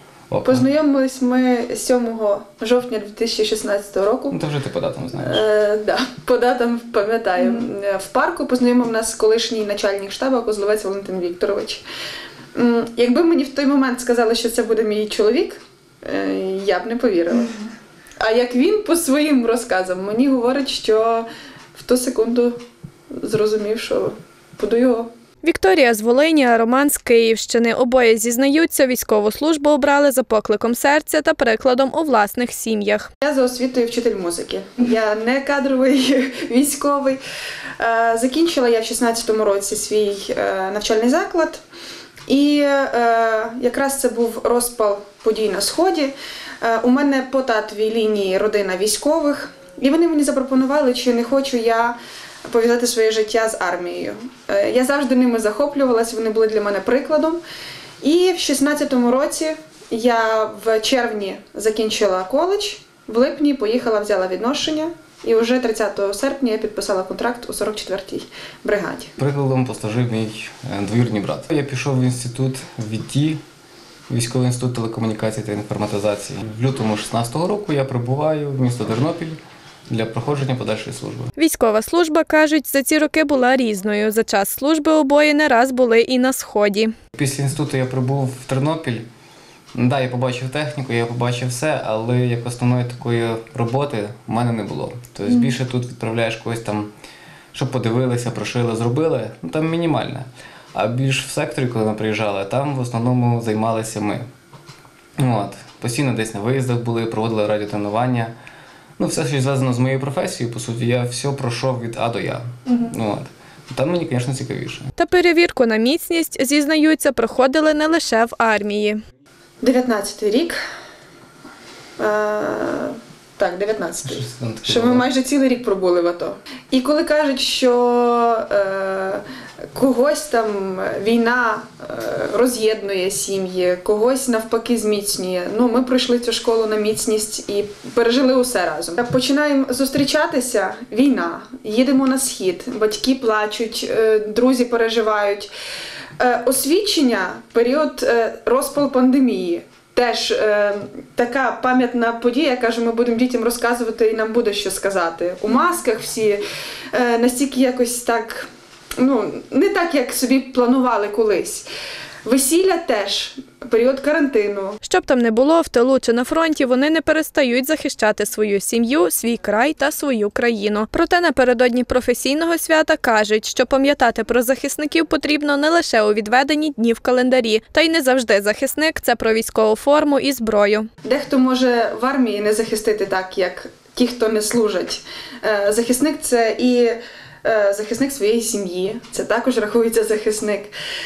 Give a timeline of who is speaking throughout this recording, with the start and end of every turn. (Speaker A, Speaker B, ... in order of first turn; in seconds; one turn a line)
Speaker A: 0.3-0.7
Speaker B: 0.5-4.4
Speaker A: 4.3-5.4
Speaker B: 5.2-11.8
Speaker B: 12.5-17.7
Speaker B: 18.2-22.6
Speaker B: 23.2-25.1
Speaker C: 25.4-33.1
Speaker B: 33.2-37.2
Speaker B: 37.8-41.6
Speaker B: 42.3-57.4
Speaker B: 58.0-69.1
Speaker A: 69.2-73.4
Speaker A: 74.1-81.3
Speaker C: 81.4-86.9
Speaker A: 87.1-89.1
Speaker A: 89.7-96.9
Speaker A: 97.5-104.2
Speaker A: 105.2-108.3
Speaker A: 109.0-114.9
Speaker C: 115.0-119.0
Speaker B: 119.6-120.6
Speaker B: 122.0-129.2
Speaker A: 124.0-125.0
Speaker B: 129.7-145.5
Speaker B: 146.2-156.4
Speaker B: 156.9-158.5
Speaker B: 159.0-161.7
Speaker B: 162.2-164.8
Speaker C: 164.8-180.9
Speaker B: 181.0-190.7